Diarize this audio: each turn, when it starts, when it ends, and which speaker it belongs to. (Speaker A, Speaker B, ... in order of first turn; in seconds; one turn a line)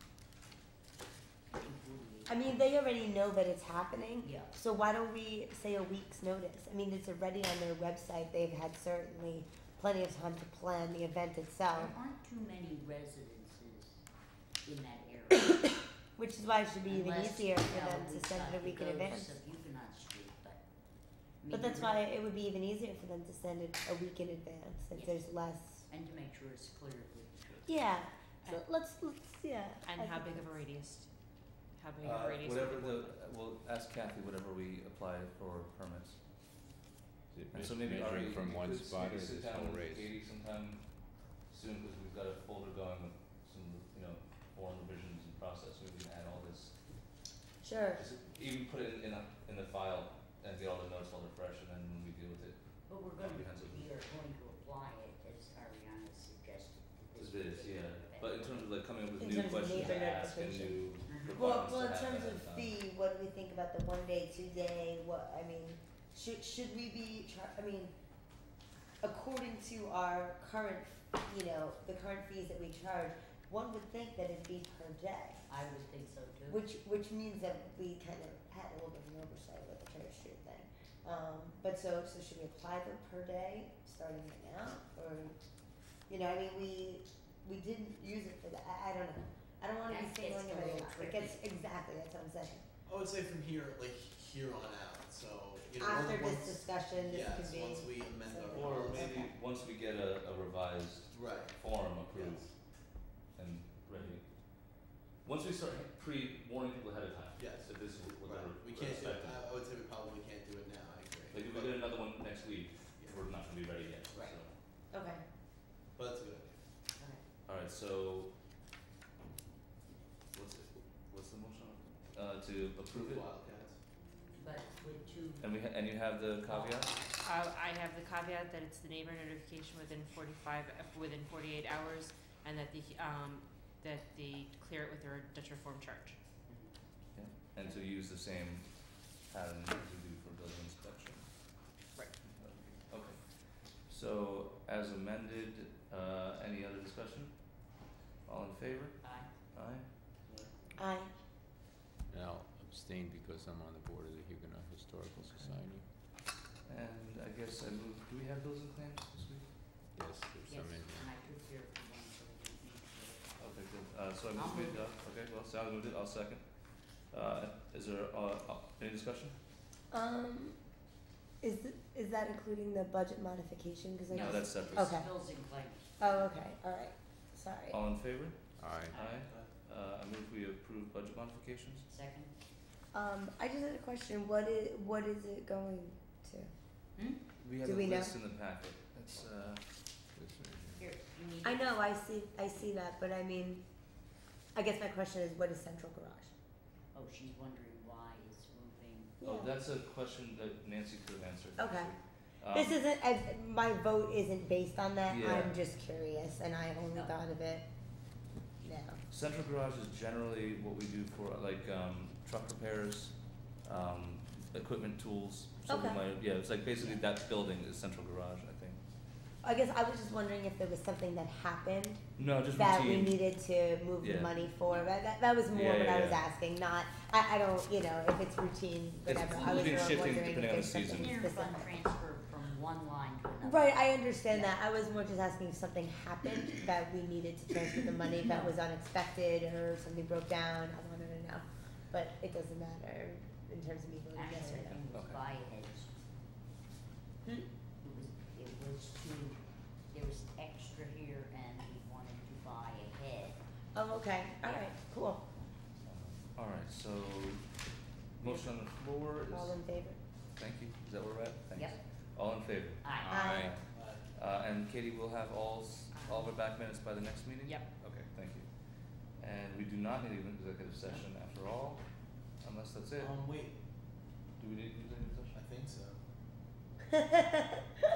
Speaker A: 1.5-2.4
Speaker B: 2.3-11.9
Speaker A: 4.2-4.5
Speaker A: 11.7-14.0
Speaker A: 14.6-15.8
Speaker B: 16.2-19.4
Speaker A: 16.9-20.6
Speaker A: 21.4-22.0
Speaker B: 21.5-25.9
Speaker A: 24.9-25.4
Speaker A: 25.9-27.8
Speaker B: 27.7-30.5
Speaker C: 29.9-31.1
Speaker C: 31.8-33.1
Speaker D: 32.0-36.2
Speaker E: 37.3-40.1
Speaker D: 37.5-46.8
Speaker B: 47.6-48.0
Speaker D: 48.0-53.9
Speaker A: 52.9-58.7
Speaker D: 57.2-62.8
Speaker B: 59.2-67.9
Speaker A: 59.7-60.0
Speaker A: 61.1-61.5
Speaker B: 69.0-75.4
Speaker A: 75.5-76.7
Speaker B: 76.5-85.3
Speaker B: 86.1-92.7
Speaker A: 89.9-91.5
Speaker F: 92.9-99.1
Speaker B: 95.8-99.3
Speaker D: 98.5-102.5
Speaker F: 101.1-102.5
Speaker D: 103.2-109.5
Speaker F: 107.4-111.8
Speaker D: 111.3-114.5
Speaker F: 113.0-113.3
Speaker B: 114.9-115.2
Speaker F: 116.0-116.5
Speaker A: 117.0-117.2
Speaker D: 117.5-118.3
Speaker D: 120.3-123.3
Speaker F: 122.9-123.8
Speaker A: 124.3-125.5
Speaker D: 125.4-126.9
Speaker A: 126.5-126.9
Speaker C: 127.2-136.2
Speaker A: 136.5-136.7
Speaker D: 137.2-141.7
Speaker D: 142.3-147.7
Speaker D: 148.3-149.8
Speaker A: 149.0-149.3
Speaker F: 150.3-150.5
Speaker B: 150.8-151.1
Speaker E: 152.1-155.9
Speaker D: 155.2-155.7
Speaker D: 156.7-159.5
Speaker E: 160.0-161.1
Speaker A: 160.4-163.5
Speaker D: 163.4-166.5
Speaker A: 164.3-164.9
Speaker D: 167.1-169.3
Speaker B: 169.9-170.6
Speaker B: 171.4-175.1
Speaker A: 174.1-176.3
Speaker D: 174.1-175.1
Speaker B: 176.0-177.8
Speaker D: 177.7-181.9
Speaker E: 178.6-179.0
Speaker A: 181.9-182.3
Speaker B: 182.9-186.5
Speaker A: 187.0-187.2
Speaker D: 187.4-189.6
Speaker B: 187.6-188.2
Speaker E: 190.2-190.9
Speaker A: 190.8-191.9
Speaker B: 191.4-193.6
Speaker B: 194.6-196.3
Speaker A: 196.9-199.1
Speaker B: 199.2-199.5
Speaker D: 199.2-202.8
Speaker B: 201.6-201.9
Speaker B: 202.5-207.7
Speaker D: 205.1-205.6
Speaker A: 206.9-207.2
Speaker B: 208.6-209.0
Speaker D: 209.1-218.8
Speaker B: 215.7-216.0
Speaker A: 216.8-217.1
Speaker B: 219.4-231.7
Speaker D: 222.2-223.2
Speaker D: 224.0-224.3
Speaker A: 224.4-225.0
Speaker D: 225.5-226.2
Speaker D: 229.1-231.2
Speaker A: 229.3-234.6
Speaker B: 233.4-244.8
Speaker A: 244.1-245.9
Speaker D: 244.9-245.2
Speaker A: 247.8-253.4
Speaker B: 253.7-255.3
Speaker D: 255.8-257.5
Speaker D: 258.2-259.6
Speaker B: 259.3-260.0
Speaker D: 260.4-263.6
Speaker A: 262.8-263.3
Speaker E: 263.0-263.6
Speaker B: 263.1-263.4
Speaker F: 263.7-264.0
Speaker D: 264.1-268.6
Speaker C: 265.9-266.3
Speaker D: 269.1-271.8
Speaker D: 272.4-273.2
Speaker F: 273.0-273.6
Speaker D: 274.4-275.4
Speaker F: 275.3-276.0
Speaker B: 276.9-277.4